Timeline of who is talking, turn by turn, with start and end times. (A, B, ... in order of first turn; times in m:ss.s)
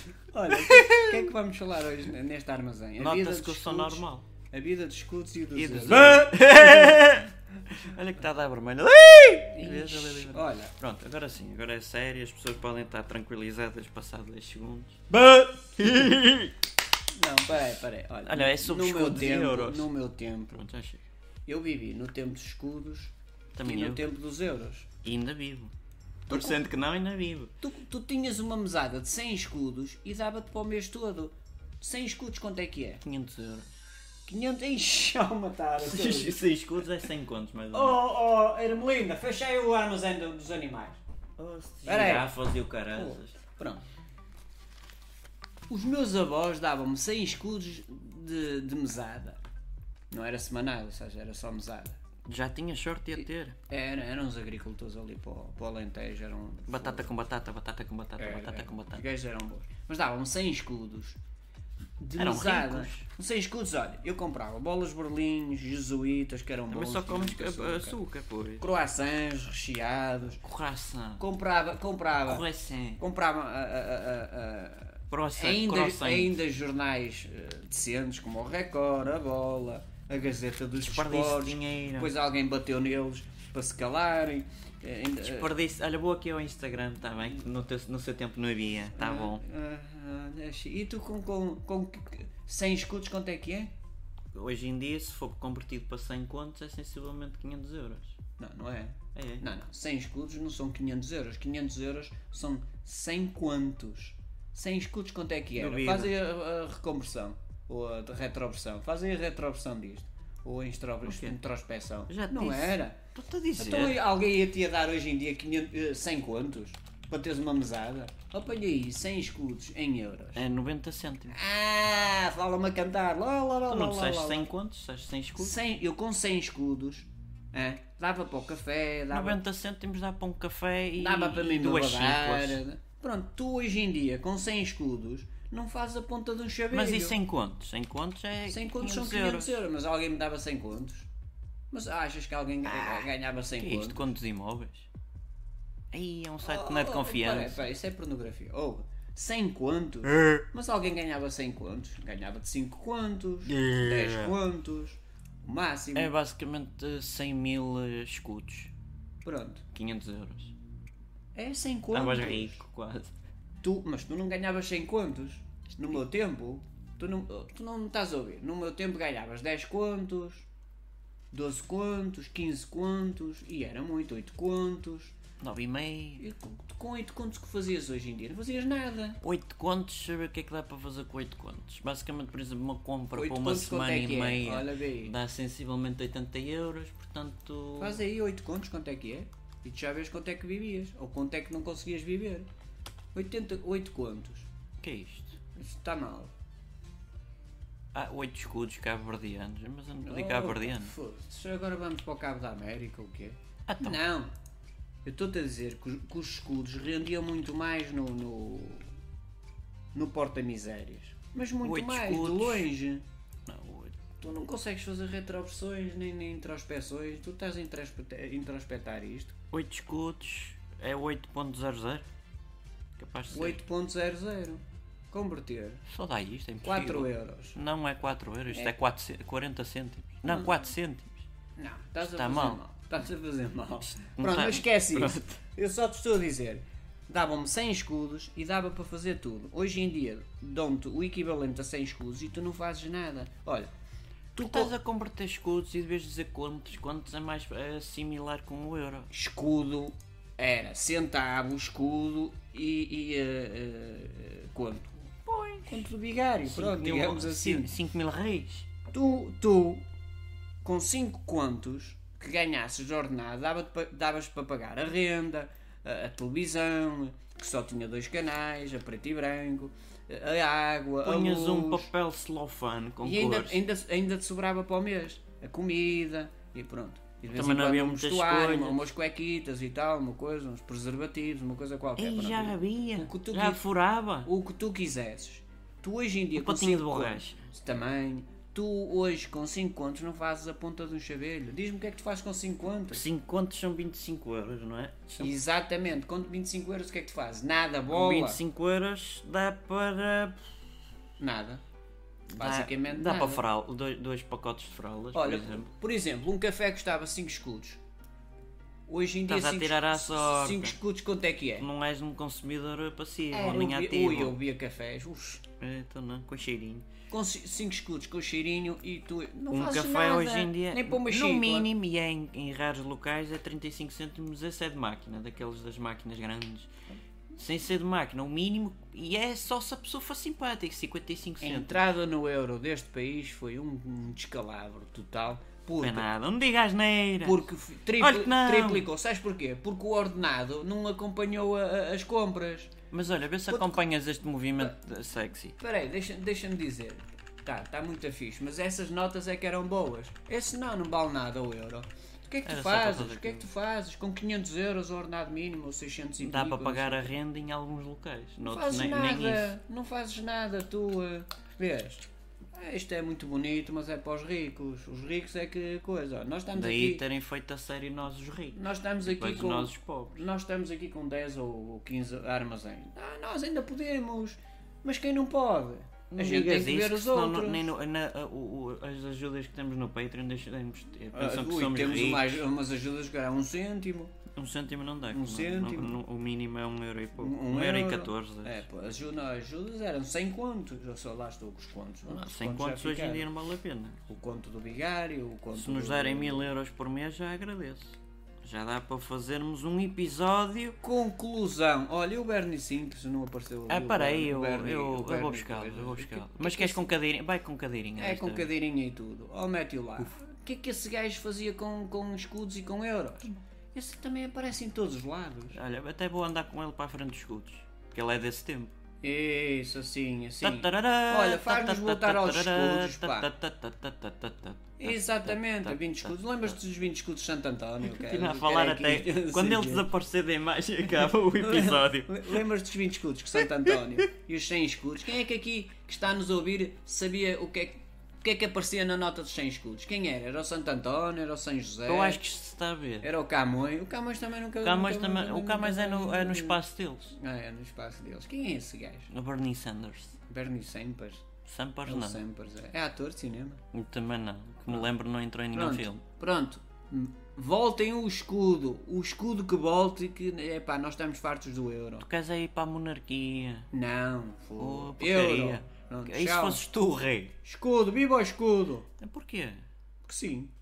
0:00.3-0:07.0 A
0:00.5-0:01.3 B
0:03.0-0:04.3 B
0:05.6-0:16.6 B
0:09.5-0:10.7 A
0:15.2-0:15.5 A
0:17.1-0:20.6 A
0:18.2-0:19.9 B
0:20.5-0:21.0 B
0:21.5-0:24.9 A
0:23.5-0:24.1 B
0:25.0-0:25.7 B
0:26.3-0:27.5 B
0:26.3-0:26.6 A
0:27.6-0:33.0 A
0:33.0-0:33.7 B
0:34.3-0:36.4 A
0:35.8-0:38.0 B
0:37.7-0:41.0 A
0:41.4-0:43.4 B
0:41.8-0:42.3 A
0:42.9-0:43.8 A
0:45.7-0:49.4 A
0:50.1-0:52.0 A
0:52.3-0:53.6 B
0:53.2-0:57.1 A
0:56.7-0:59.0 B
0:58.2-1:01.2 A
1:02.0-1:08.0 A
1:02.2-1:03.1 B
1:06.7-1:08.7 B
1:08.6-1:10.4 A
1:10.4-1:11.3 B
1:11.2-1:12.4 A
1:12.2-1:13.0 B
1:13.0-1:25.5 A
1:15.1-1:16.4 B
1:20.8-1:22.1 B
1:25.2-1:29.4 B
1:29.0-1:33.7 A
1:34.3-1:38.2 B
1:38.4-1:53.0 A
1:39.2-1:39.4 B
1:45.6-1:46.1 B
1:51.0-1:51.4 B
1:52.1-1:54.0 B
1:53.6-2:00.4 A
2:00.4-2:01.4 B
2:01.3-2:04.5 A
2:03.7-2:05.6 B
2:05.4-2:09.4 A
2:09.1-2:12.6 B
2:11.0-2:17.2 A
2:16.7-2:19.6 B
2:18.5-2:21.1 A
2:21.7-2:24.1 A
2:22.6-2:24.9 B
2:25.9-2:27.7 B
2:26.4-2:36.1 A
2:33.5-2:34.3 B
2:36.0-2:38.7 B
2:39.2-2:39.6 A
2:39.7-2:40.5 B
2:41.4-2:42.6 A
2:41.9-2:43.1 B
2:43.6-2:50.5 A
2:51.3-2:55.2 A
2:55.4-2:56.2 B
2:56.2-2:59.2 A
2:59.2-3:08.0 B
3:03.2-3:05.1 A
3:07.8-3:12.5 A
3:13.1-3:14.5 A
3:14.8-3:15.4 B
3:15.6-3:16.3 A
3:17.9-3:20.9 B
3:20.0-3:24.3 A
3:23.7-3:24.0 B
3:25.0-3:28.9 A
3:29.9-3:33.0 A
3:31.6-3:32.7 B
3:33.5-3:34.0 B
3:34.2-3:39.4 A
3:39.5-3:42.1 B
3:43.0-3:43.6 B
3:43.3-3:45.8 A
3:45.9-3:51.2 B
3:46.6-3:47.6 A
3:50.3-3:50.6 A
3:51.6-4:03.7 A
3:52.0-3:52.6 B
3:54.0-3:55.4 B
4:04.3-4:04.7 A
4:04.4-4:09.1 B
4:09.1-4:15.1 A
4:15.3-4:15.9 B
4:15.7-4:17.7 A
4:16.4-4:18.7 B
4:18.9-4:19.8 A
4:20.6-4:31.9 A
4:31.0-4:33.6 B
4:33.0-4:43.6 A
4:37.3-4:38.8 B
4:42.0-4:44.3 B
4:44.2-4:53.0 A
4:46.4-4:47.4 B
4:52.9-4:55.3 B
4:55.2-4:58.4 A
4:57.9-5:00.4 B
5:01.2-5:01.6 A
5:02.3-5:05.7 B
5:02.4-5:03.4 A
5:05.1-5:07.8 A
5:08.9-5:11.7 A
5:09.3-5:10.8 B
5:11.6-5:14.4 B
5:13.3-5:15.4 A
5:15.6-5:16.9 B
5:17.1-5:21.7 A
5:19.5-5:26.7 B
5:27.4-5:31.8 B
5:31.4-5:36.1 A
5:35.8-5:37.5 B
5:37.2-5:42.7 A
5:38.0-5:38.9 B
5:42.9-5:45.6 B
5:43.5-5:43.8 A
5:45.6-5:57.1 A
5:52.4-5:53.5 B
5:56.2-5:59.6 B
5:58.4-6:07.0 A
6:06.6-6:10.2 B
6:08.5-6:17.7 A
6:16.1-6:22.4 B
6:21.1-6:24.2 A
6:24.4-6:28.6 B
6:25.1-6:26.0 A
6:27.2-6:33.3 A
6:32.1-6:34.0 B
6:34.1-6:36.5 A
6:35.5-6:40.8 B
6:40.8-6:47.0 A
6:43.7-6:48.5 B
6:48.0-6:55.6 A
6:55.5-6:58.7 B
6:59.0-7:03.3 A
7:00.4-7:06.6 B
7:04.8-7:09.9 A
7:07.8-7:12.4 B
7:10.9-7:22.2 A
7:13.4-7:13.8 B
7:21.9-7:23.1 B
7:23.0-7:26.6 A
7:24.6-7:27.2 B
7:27.1-7:29.1 A
7:29.1-7:30.2 B
7:30.3-7:31.3 A
7:31.5-7:32.2 B
7:31.9-7:33.6 A
7:33.7-7:36.0 B
7:35.5-7:42.0 A
7:42.0-7:43.7 B
7:43.7-7:46.6 A
7:44.6-7:47.4 B
7:47.4-7:48.9 A
7:49.0-7:49.7 B
7:50.0-7:50.5 A